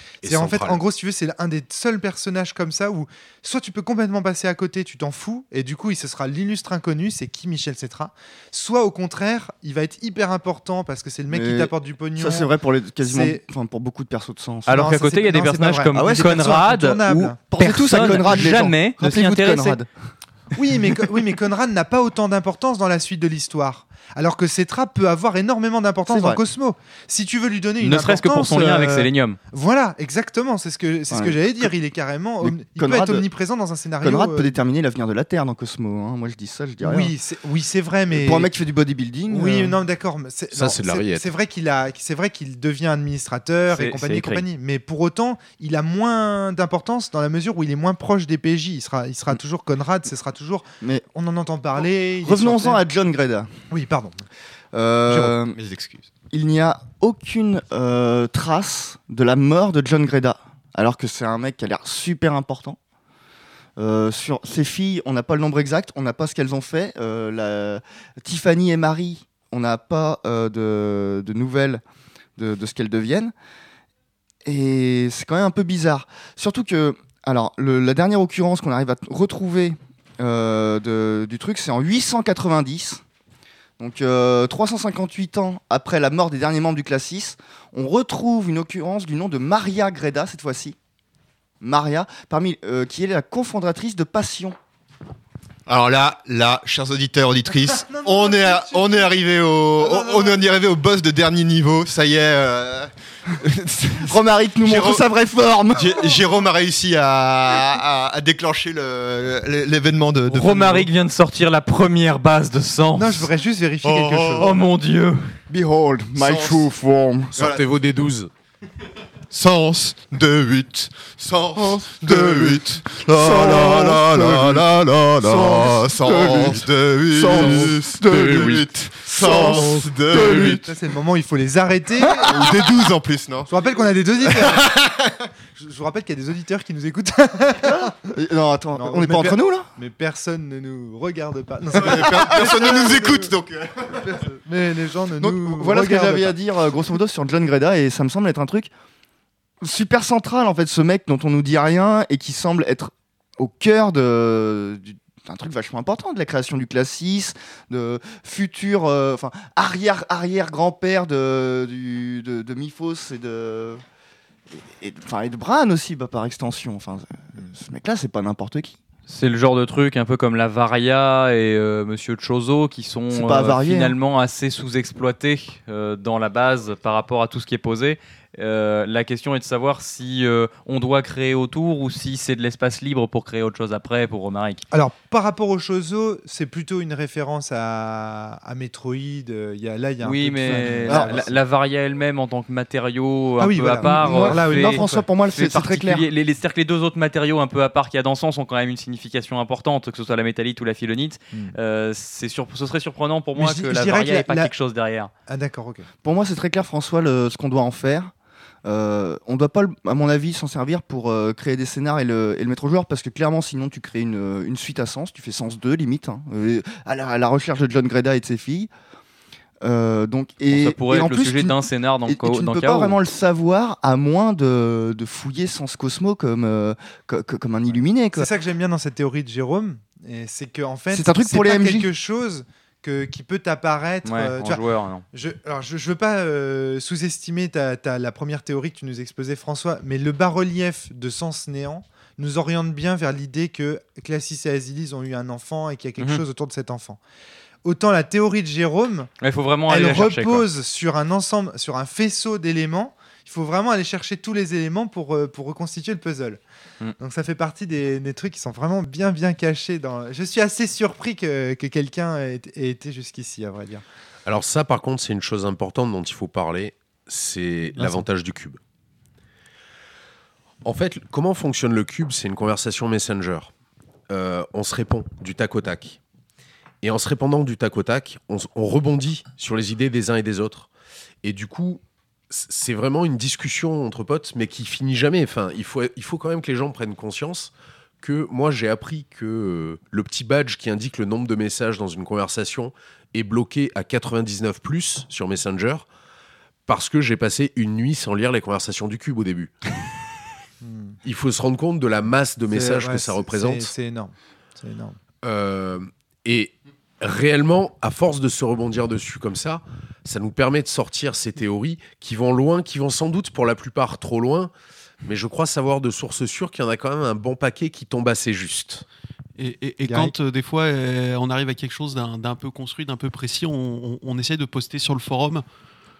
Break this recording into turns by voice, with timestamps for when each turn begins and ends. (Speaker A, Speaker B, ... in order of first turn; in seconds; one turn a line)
Speaker A: 0.2-0.8
Speaker B: 0.2-13.4
Speaker C: 11.3-14.8
Speaker D: 14.7-19.8
Speaker B: 14.7-18.5
Speaker C: 15.9-16.3
Speaker C: 17.5-19.9
Speaker B: 20.5-34.5
Speaker C: 26.1-26.4
Speaker D: 27.8-29.4
Speaker C: 31.1-31.7
Speaker C: 32.4-33.2
Speaker C: 34.0-37.1
Speaker B: 36.8-38.5
Speaker C: 38.1-39.8
Speaker B: 39.3-52.8
Speaker A: 40.5-41.3
Speaker D: 43.7-44.4
Speaker C: 52.2-53.5
Speaker B: 53.7-54.2
Speaker C: 54.7-55.6
Speaker E: 55.5-56.1
Speaker C: 56.3-62.8
Speaker C: 63.8-71.8
Speaker C: 72.4-73.3
Speaker C: 74.4-83.0
Speaker C: 83.8-90.8
Speaker C: 91.6-94.6
Speaker E: 95.7-105.0
Speaker B: 97.8-99.1
Speaker B: 99.8-100.4
Speaker C: 104.0-106.0
Speaker E: 105.7-110.9
Speaker D: 110.3-113.3
Speaker B: 113.0-114.6
Speaker E: 113.8-114.6
Speaker D: 114.3-115.4
Speaker C: 115.5-117.5
Speaker E: 116.2-116.7
Speaker E: 117.4-117.6
Speaker A: 117.4-118.3
Speaker E: 119.3-130.6
Speaker C: 121.5-124.7
Speaker C: 125.2-130.6
Speaker A: 127.3-128.7
Speaker A: 129.2-130.6
Speaker B: 130.5-132.5
Speaker C: 132.1-132.4
Speaker E: 132.2-133.5
Speaker B: 133.5-134.7
Speaker E: 134.2-135.2
Speaker B: 135.5-138.1
Speaker C: 137.7-139.7
Speaker B: 138.7-143.3
Speaker E: 141.8-144.2
Speaker B: 143.9-146.4
Speaker C: 145.2-148.7
Speaker C: 149.6-163.8
Speaker C: 164.5-168.8
Speaker D: 169.1-184.6
Speaker C: 173.1-173.9
Speaker B: 184.7-191.3
Speaker D: 190.0-205.1
Speaker C: 190.5-191.2
Speaker B: 193.4-195.1
Speaker C: 193.8-196.1
Speaker B: 203.3-204.5
Speaker B: 205.3-205.9
Speaker C: 206.0-208.1
Speaker C: 208.6-218.7
Speaker C: 219.6-228.3
Speaker D: 220.5-223.0
Speaker B: 228.1-247.0
Speaker C: 230.9-231.9
Speaker D: 234.0-235.0
Speaker B: 247.6-249.1
Speaker D: 249.2-250.5
Speaker B: 249.7-256.4
Speaker B: 257.0-263.8
Speaker A: 264.2-268.6
Speaker B: 267.8-268.0
Speaker A: 270.6-273.5
Speaker A: 274.1-276.0
Speaker A: 276.8-280.7
Speaker A: 281.2-295.9
Speaker A: 296.7-299.7
Speaker B: 300.6-301.0
Speaker A: 301.0-303.7
Speaker B: 302.5-305.0
Speaker A: 305.2-314.5
Speaker A: 315.0-318.9
Speaker F: 319.4-325.4
Speaker B: 319.8-320.1